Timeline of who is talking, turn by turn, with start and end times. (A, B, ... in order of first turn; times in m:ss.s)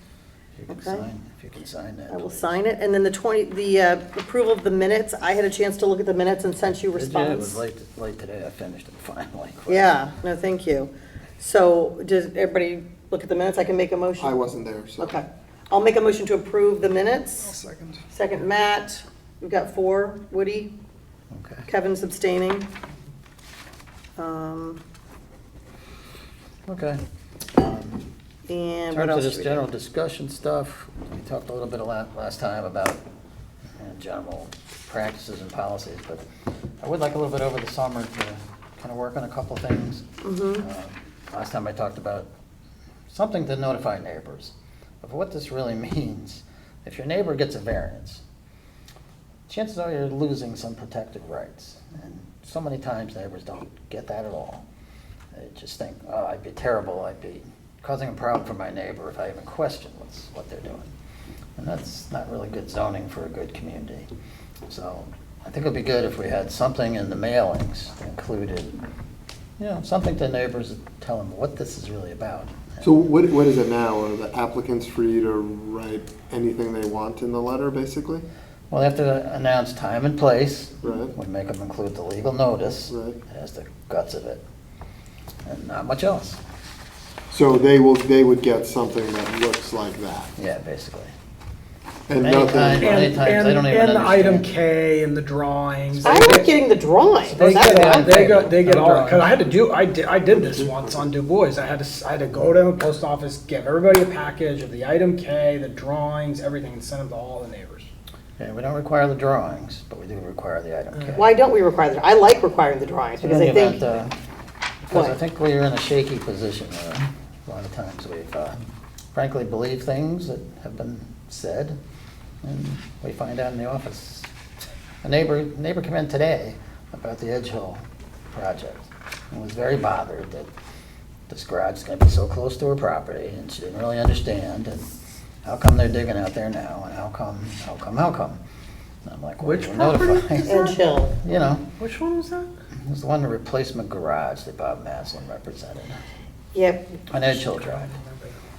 0:00.6-0:02.5 A
0:00.7-0:01.0 B
0:02.1-0:07.6 B
0:06.9-0:10.0 A
0:09.7-0:14.4 B
0:14.2-0:15.1 C
0:15.0-0:17.6 B
0:17.6-0:17.9 C
0:18.1-0:20.7 B
0:21.3-0:21.6 A
0:21.7-0:22.7 B
0:24.2-0:24.8 B
0:26.7-0:27.0 A
0:27.5-0:28.0 A
0:28.5-0:29.7 B
0:28.9-0:33.0 A
0:33.8-0:36.2 A
0:36.8-0:40.0 A
0:40.2-0:40.6 B
0:40.6-0:42.3 A
0:43.1-0:48.2 A
0:49.5-0:54.6 A
0:55.3-1:00.9 A
1:01.6-1:04.1 A
1:04.7-1:08.8 A
1:09.6-1:12.9 A
1:12.8-1:18.2 C
1:18.7-1:24.4 A
1:20.8-1:21.2 C
1:22.9-1:23.2 C
1:25.4-1:26.4 A
1:27.3-1:30.3 C
1:30.4-1:31.1 A
1:32.1-1:33.1 C
1:32.2-1:34.5 A
1:32.8-1:36.6 D
1:36.0-1:38.2 B
1:37.2-1:39.3 A
1:37.4-1:47.9 D
1:40.3-1:41.1 C
1:48.4-1:51.3 A
1:51.2-1:53.9 B
1:53.2-1:54.1 A
1:54.8-1:58.6 A
1:59.1-2:01.8 A
2:02.4-2:04.3 A
2:05.0-2:10.5 A
2:11.3-2:14.9 A
2:15.4-2:18.4 A
2:19.0-2:21.6 A
2:19.4-2:20.8 D
2:20.4-2:21.1 B
2:21.8-2:22.5 D
2:22.8-2:26.0 A
2:26.5-2:26.8 B
2:27.1-2:27.9 A
2:27.4-2:28.4 D